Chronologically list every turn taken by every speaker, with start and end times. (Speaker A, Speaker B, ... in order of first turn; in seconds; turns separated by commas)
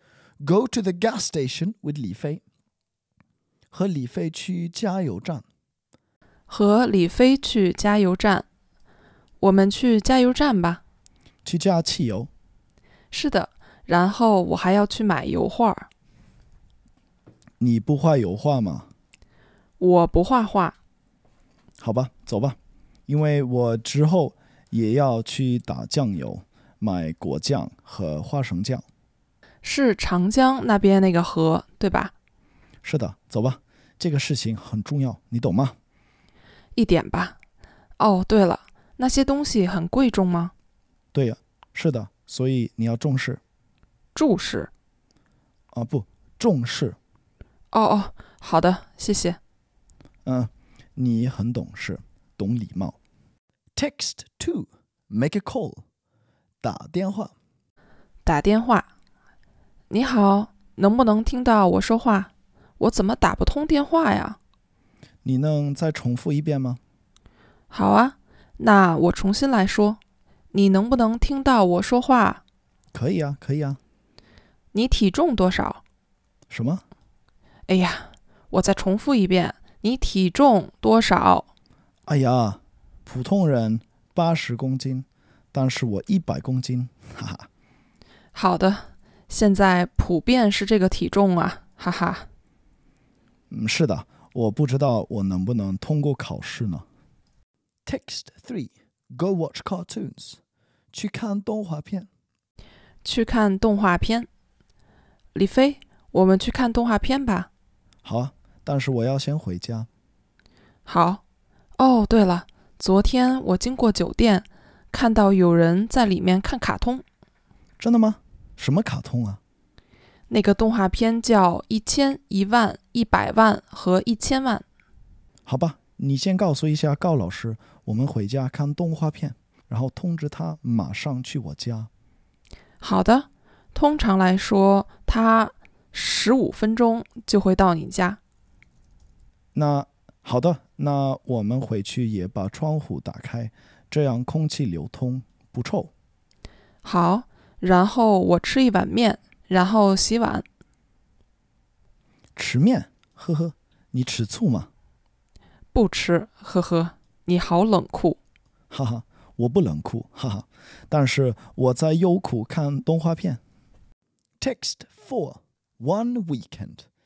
Speaker A: 0.4-2.4, Speaker A: 3.7-5.4, Speaker B: 6.5-8.4, Speaker B: 9.4-10.8, Speaker A: 11.4-12.3, Speaker B: 13.1-15.9, Speaker A: 17.6-18.9, Speaker B: 19.8-20.8, Speaker A: 21.8-22.6, Speaker A: 23.1-28.8, Speaker B: 29.6-32.1, Speaker A: 32.8-35.7, Speaker B: 36.7-37.4, Speaker B: 38.0-40.5, Speaker A: 41.1-43.4, Speaker B: 44.1-44.7, Speaker A: 45.7-47.0, Speaker B: 47.7-49.4, Speaker A: 50.2-53.0, Speaker A: 53.7-55.8, Speaker A: 56.6-57.3, Speaker B: 58.2-58.9, Speaker B: 59.9-64.4, Speaker A: 65.2-66.8, Speaker B: 67.7-70.0, Speaker B: 70.5-72.4, Speaker A: 72.9-73.8, Speaker B: 74.7-75.8, Speaker A: 76.5-76.8, Speaker B: 77.7-81.5, Speaker A: 82.1-87.5, Speaker B: 88.3-92.3, Speaker A: 93.5-96.8, Speaker A: 97.8-100.4, Speaker A: 100.9-102.1, Speaker B: 103.0-104.3, Speaker B: 105.3-107.5, Speaker A: 108.0-109.9, Speaker B: 110.8-111.2, Speaker B: 111.8-117.0, Speaker A: 117.8-119.4, Speaker B: 120.3-124.6, Speaker A: 125.5-131.9, Speaker B: 132.8-138.2, Speaker A: 139.5-145.9, Speaker B: 146.8-150.4, Speaker A: 152.3-154.7, Speaker B: 155.7-158.2, Speaker A: 158.7-163.4, Speaker A: 164.4-166.8